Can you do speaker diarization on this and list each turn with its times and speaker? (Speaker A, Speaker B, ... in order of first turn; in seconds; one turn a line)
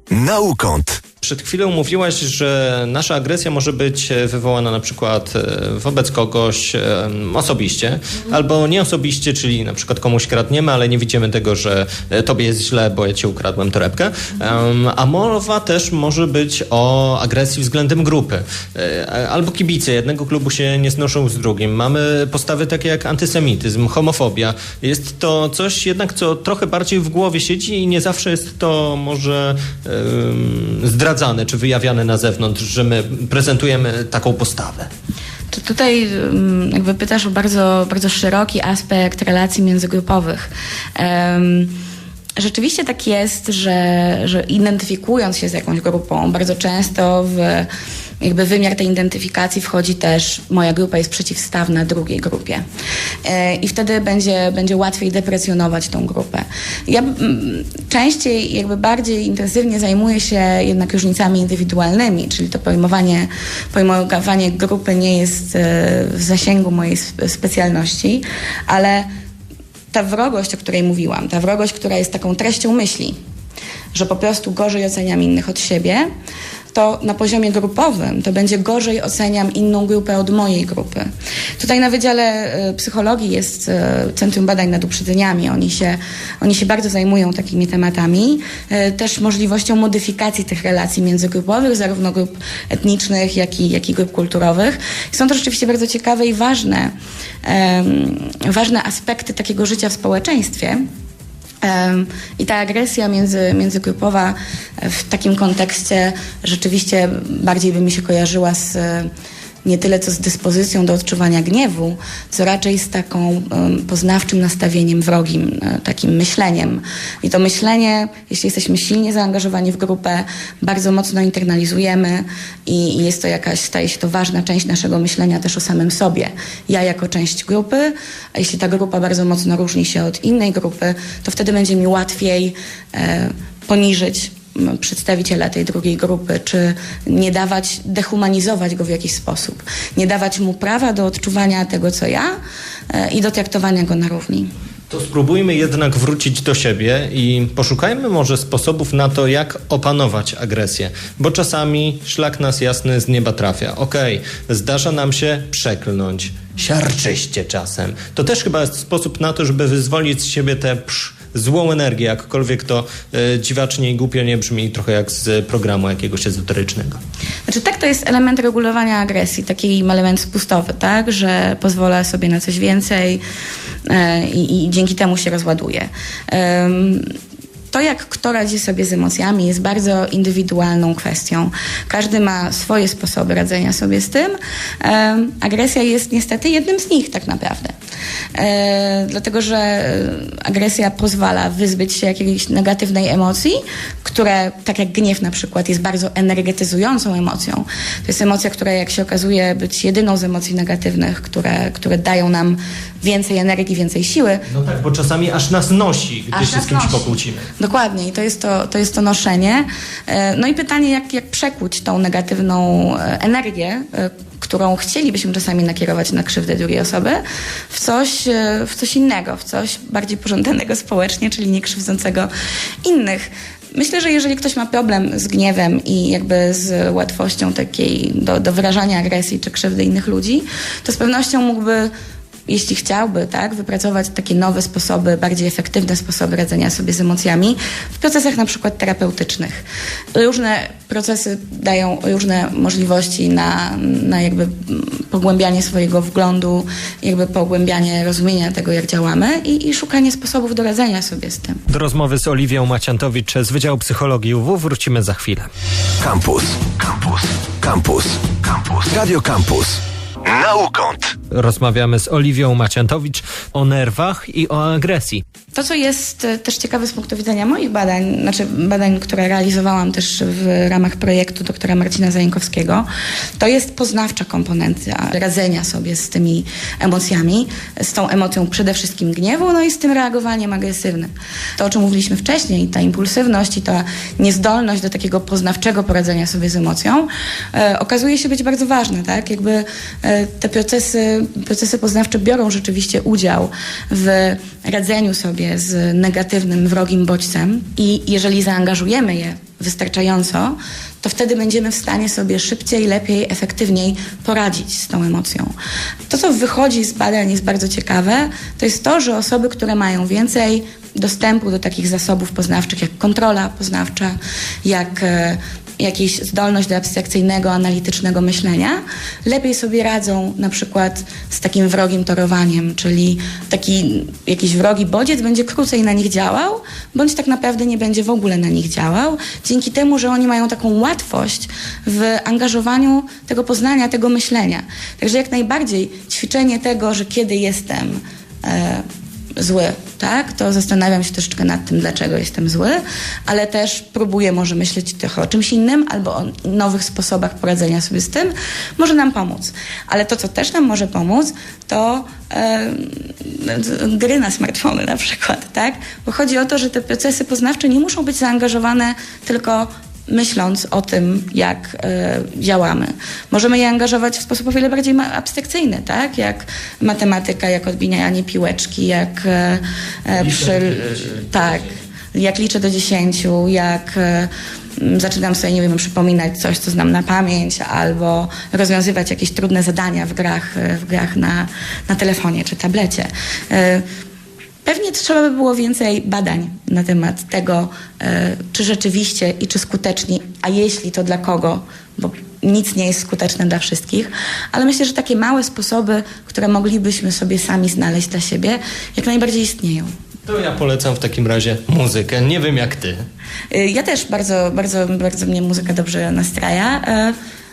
Speaker A: 0.1-1.0
Speaker B: 1.2-34.9
Speaker C: 35.5-41.8
Speaker C: 42.4-47.7
Speaker C: 48.2-52.6
Speaker C: 53.2-69.1
Speaker C: 69.9-73.2
Speaker C: 73.9-76.1
Speaker C: 76.7-81.0
Speaker C: 81.6-96.9
Speaker C: 97.4-100.8
Speaker C: 101.6-109.1
Speaker C: 109.6-142.3
Speaker C: 142.9-144.5
Speaker B: 144.9-167.0
Speaker C: 167.4-173.2
Speaker C: 173.8-177.0
Speaker C: 177.7-187.7
Speaker C: 188.3-204.4
Speaker B: 204.5-207.4
Speaker C: 206.3-222.3
Speaker C: 222.8-231.9
Speaker C: 232.5-251.6
Speaker B: 251.7-255.5
Speaker A: 256.0-261.1
Speaker B: 261.3-265.2
Speaker C: 265.5-272.9
Speaker C: 273.4-305.5
Speaker C: 306.1-338.8
Speaker C: 339.4-383.8
Speaker B: 370.3-370.6
Speaker C: 384.6-399.9
Speaker B: 400.2-403.0
Speaker C: 403.5-407.1